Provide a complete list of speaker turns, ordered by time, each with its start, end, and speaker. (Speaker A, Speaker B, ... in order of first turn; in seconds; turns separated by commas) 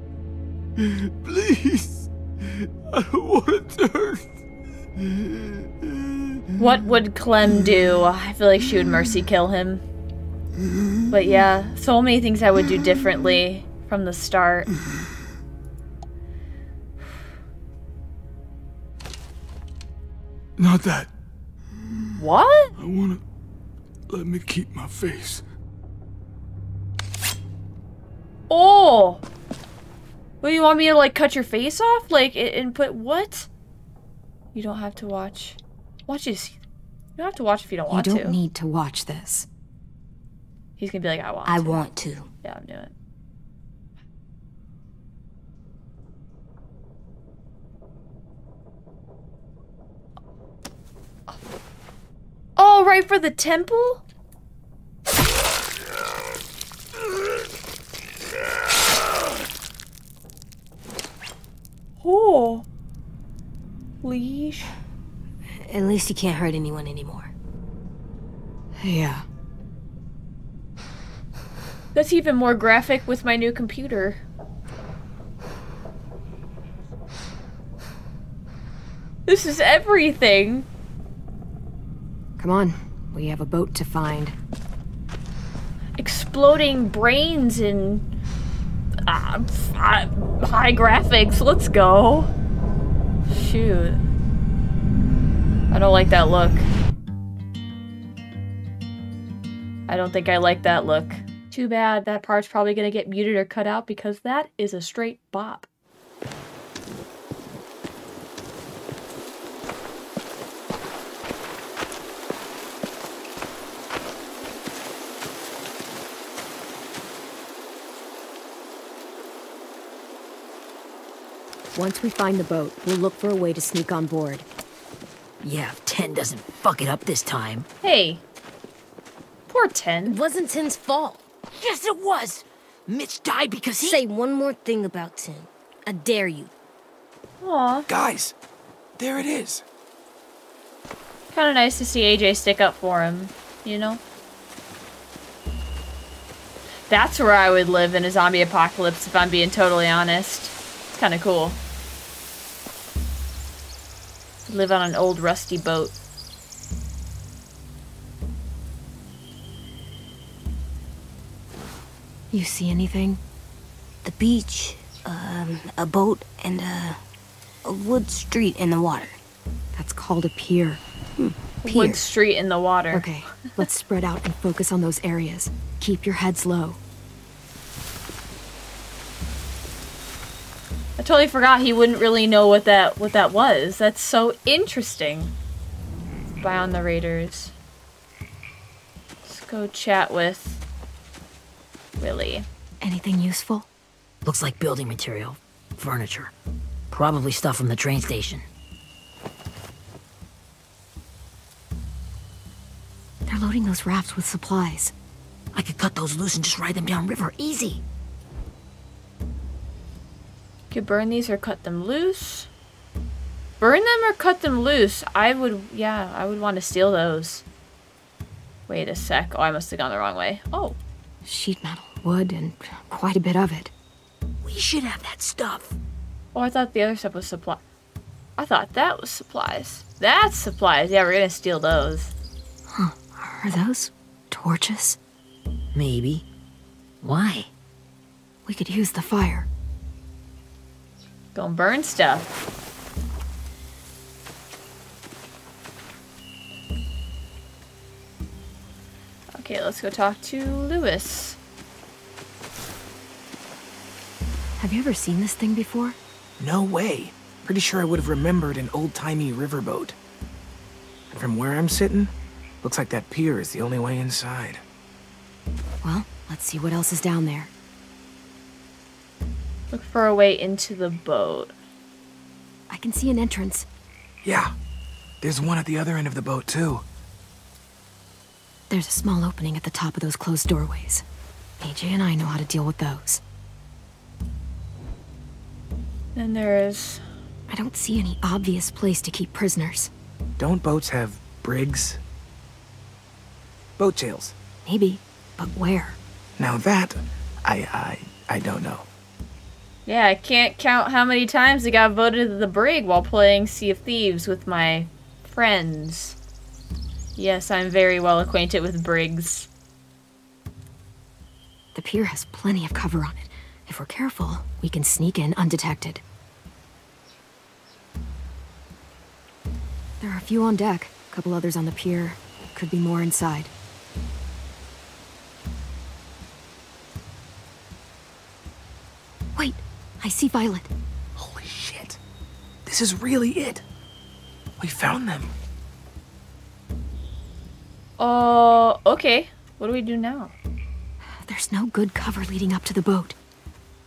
Speaker A: 0.8-4.2, Speaker A: 5.0-6.4, Speaker B: 6.6-9.8, Speaker B: 11.1-14.7, Speaker A: 20.6-21.1, Speaker B: 22.2-22.7, Speaker A: 22.8-23.2, Speaker A: 24.1-25.4, Speaker B: 28.5-29.2, Speaker B: 30.4-33.5, Speaker B: 34.5-36.6, Speaker B: 37.2-38.4, Speaker C: 37.9-39.5, Speaker B: 40.8-41.8, Speaker D: 41.4-42.3, Speaker B: 42.4-42.9, Speaker B: 52.6-54.0, Speaker B: 62.0-62.6, Speaker B: 64.0-64.7, Speaker D: 65.6-67.3, Speaker C: 68.8-69.2, Speaker B: 71.9-74.2, Speaker B: 79.2-80.7, Speaker C: 82.4-84.3, Speaker B: 86.0-88.0, Speaker B: 89.0-92.3, Speaker B: 93.3-94.0, Speaker B: 95.7-96.7, Speaker B: 99.9-105.7, Speaker C: 121.7-124.5, Speaker E: 125.4-127.7, Speaker B: 127.8-128.2, Speaker B: 129.5-130.2, Speaker D: 130.1-131.2, Speaker E: 131.5-134.0, Speaker D: 133.8-136.5, Speaker B: 137.4-137.9, Speaker F: 137.9-138.3, Speaker F: 139.0-139.6, Speaker B: 141.3-144.0, Speaker B: 146.9-151.6, Speaker B: 154.5-155.9, Speaker C: 162.3-163.2, Speaker D: 164.0-167.0, Speaker D: 167.6-169.2, Speaker C: 169.7-170.8, Speaker D: 171.2-172.0, Speaker B: 171.6-173.1, Speaker C: 172.9-176.8, Speaker B: 181.0-185.3, Speaker B: 186.4-187.5, Speaker B: 189.2-190.6, Speaker B: 192.0-192.5, Speaker C: 192.8-193.7, Speaker E: 194.2-196.3, Speaker E: 196.9-198.4, Speaker C: 203.3-204.9, Speaker E: 205.5-207.8, Speaker B: 210.7-212.5, Speaker B: 213.6-217.4, Speaker B: 218.7-220.8, Speaker C: 221.2-223.7, Speaker E: 224.4-225.8, Speaker B: 226.3-227.6, Speaker B: 228.4-232.1, Speaker C: 232.7-235.0, Speaker E: 235.7-236.2, Speaker E: 237.0-237.5, Speaker C: 238.4-239.5, Speaker B: 241.3-242.3, Speaker B: 249.3-251.4, Speaker C: 254.6-256.0, Speaker F: 256.4-259.9, Speaker F: 261.1-264.6, Speaker C: 265.8-267.5, Speaker B: 269.7-271.5, Speaker C: 272.7-273.7, Speaker F: 274.2-274.5, Speaker F: 275.2-276.8, Speaker C: 278.7-281.0, Speaker C: 281.6-283.2, Speaker B: 286.1-287.0, Speaker C: 287.5-289.9, Speaker F: 290.4-292.0, Speaker F: 293.8-294.3, Speaker C: 294.6-296.0, Speaker F: 296.4-298.9, Speaker B: 299.9-306.2, Speaker B: 307.2-309.5, Speaker C: 311.7-316.0, Speaker C: 320.0-323.5, Speaker C: 329.4-330.7, Speaker F: 331.1-332.0, Speaker F: 332.6-333.6, Speaker F: 334.6-335.3, Speaker B: 338.0-340.3, Speaker C: 341.0-343.1